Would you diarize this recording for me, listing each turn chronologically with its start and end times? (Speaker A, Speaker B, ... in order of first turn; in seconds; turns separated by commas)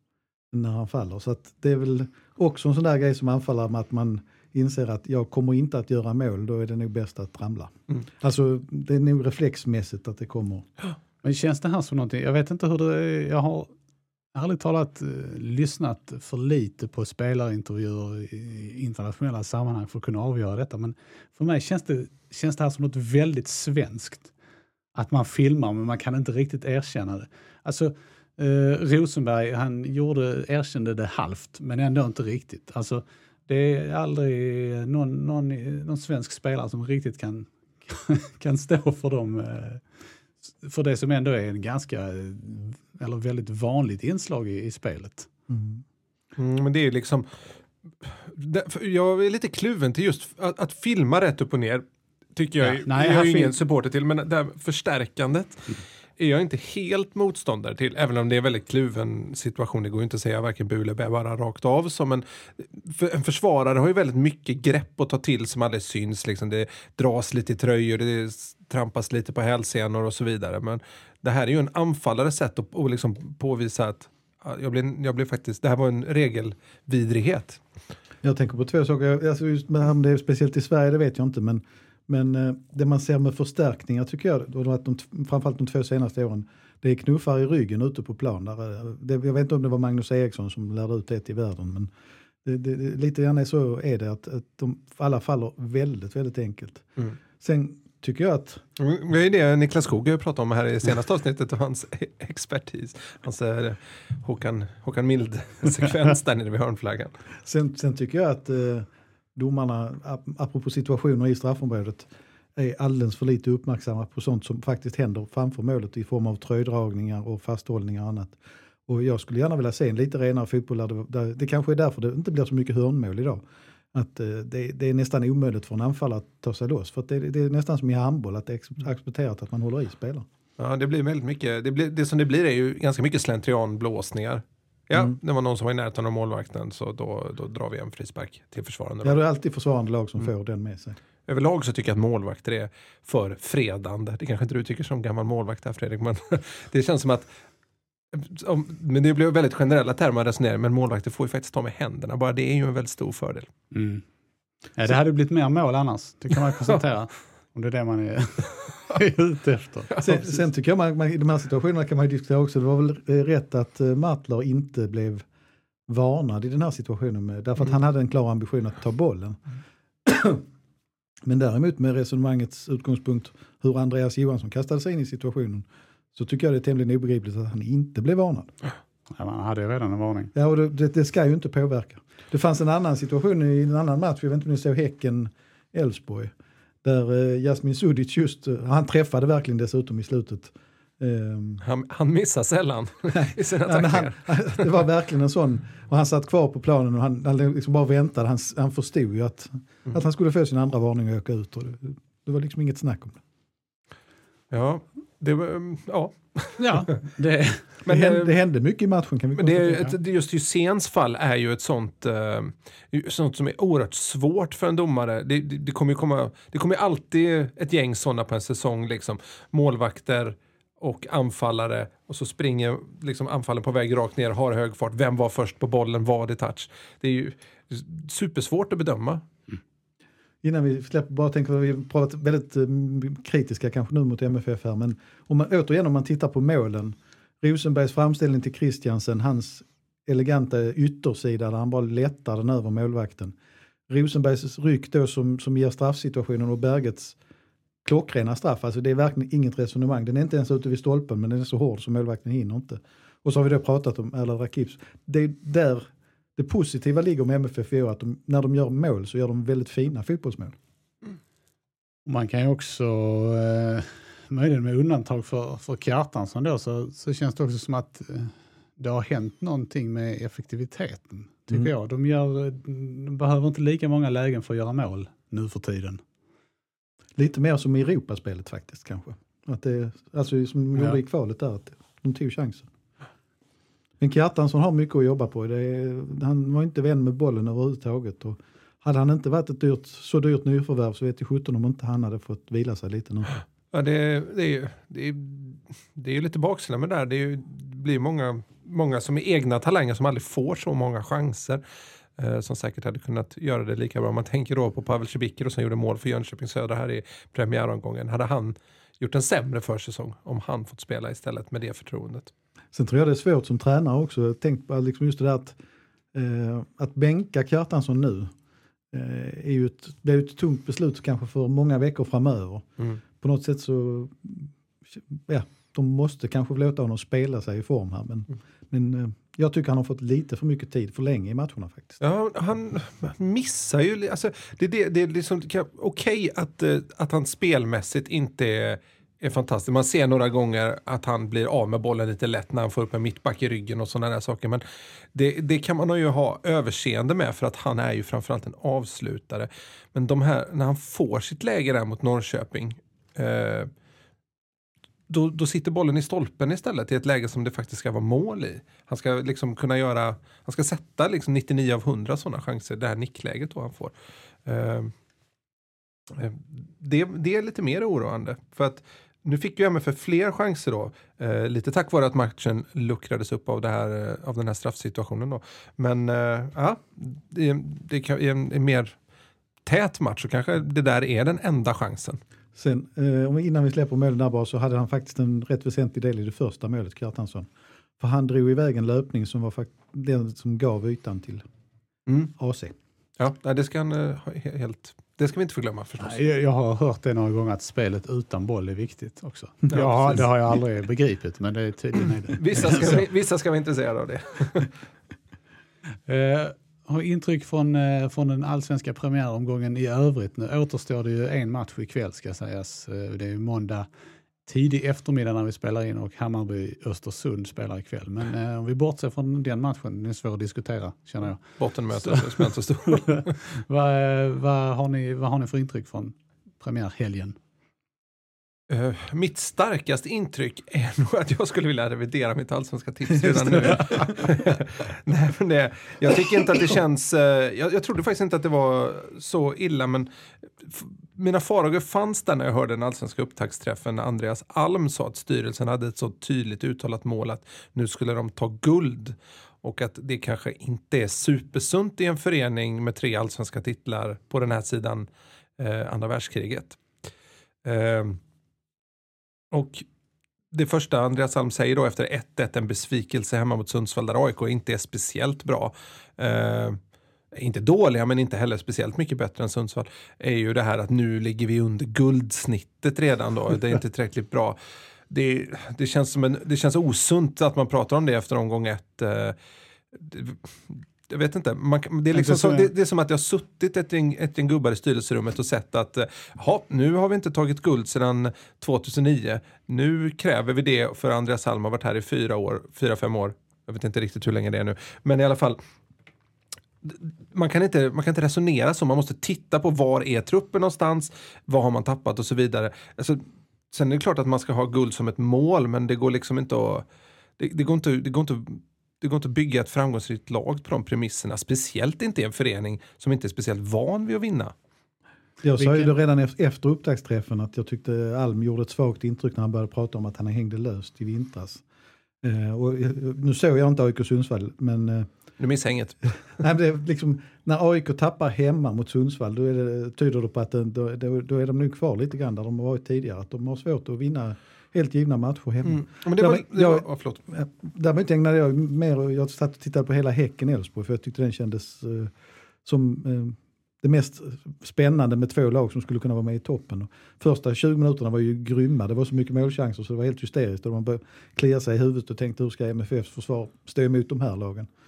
Speaker A: 0.5-10.7, Speaker B: 11.2-13.7, Speaker B: 14.3-24.3, Speaker B: 24.9-39.8, Speaker B: 40.6-45.3, Speaker A: 45.5-45.8, Speaker C: 46.4-47.3, Speaker C: 48.0-77.6, Speaker B: 52.6-53.5, Speaker A: 78.2-91.9, Speaker A: 92.4-96.9, Speaker A: 97.4-98.6, Speaker C: 98.8-107.1, Speaker A: 107.4-130.2, Speaker C: 130.6-139.2, Speaker A: 139.0-141.0, Speaker C: 141.3-147.3, Speaker C: 148.1-153.5, Speaker B: 153.7-154.0, Speaker B: 154.7-160.0, Speaker A: 160.0-165.2, Speaker A: 165.9-169.4, Speaker A: 170.0-170.4, Speaker A: 171.2-178.5, Speaker B: 179.1-180.3, Speaker A: 180.3-186.3, Speaker A: 186.8-191.6, Speaker C: 191.6-194.7, Speaker A: 193.1-203.2, Speaker C: 204.5-206.6, Speaker B: 206.6-207.7, Speaker C: 207.8-208.3, Speaker A: 207.9-209.9, Speaker C: 209.4-229.2, Speaker A: 230.4-243.3, Speaker A: 243.9-247.2, Speaker A: 247.8-260.6, Speaker B: 262.1-276.0, Speaker A: 277.2-282.7, Speaker A: 284.0-293.3, Speaker C: 293.7-301.6, Speaker C: 302.2-312.3, Speaker A: 312.7-315.6, Speaker A: 316.1-318.3, Speaker A: 318.9-332.0, Speaker C: 332.0-344.6, Speaker C: 345.1-353.7, Speaker C: 355.1-363.9, Speaker C: 364.4-364.9, Speaker C: 366.1-378.9, Speaker C: 379.6-382.2, Speaker A: 382.6-391.4, Speaker A: 392.4-392.7, Speaker C: 393.2-396.2, Speaker B: 396.0-403.0, Speaker C: 399.7-400.2, Speaker C: 402.4-404.7, Speaker B: 406.1-413.9, Speaker B: 414.4-427.4, Speaker C: 421.6-423.3, Speaker C: 428.7-440.1, Speaker C: 440.6-455.1, Speaker C: 455.6-456.8, Speaker C: 457.6-458.2, Speaker C: 459.5-459.9, Speaker C: 460.5-466.8, Speaker C: 467.3-474.6, Speaker C: 475.1-479.4, Speaker C: 479.9-495.6, Speaker B: 482.1-482.7, Speaker C: 496.8-506.8, Speaker C: 507.4-514.5, Speaker A: 515.4-521.6, Speaker B: 515.6-515.9, Speaker A: 522.2-525.1, Speaker C: 525.4-526.2, Speaker A: 526.4-542.1, Speaker C: 535.6-537.2, Speaker A: 542.6-554.7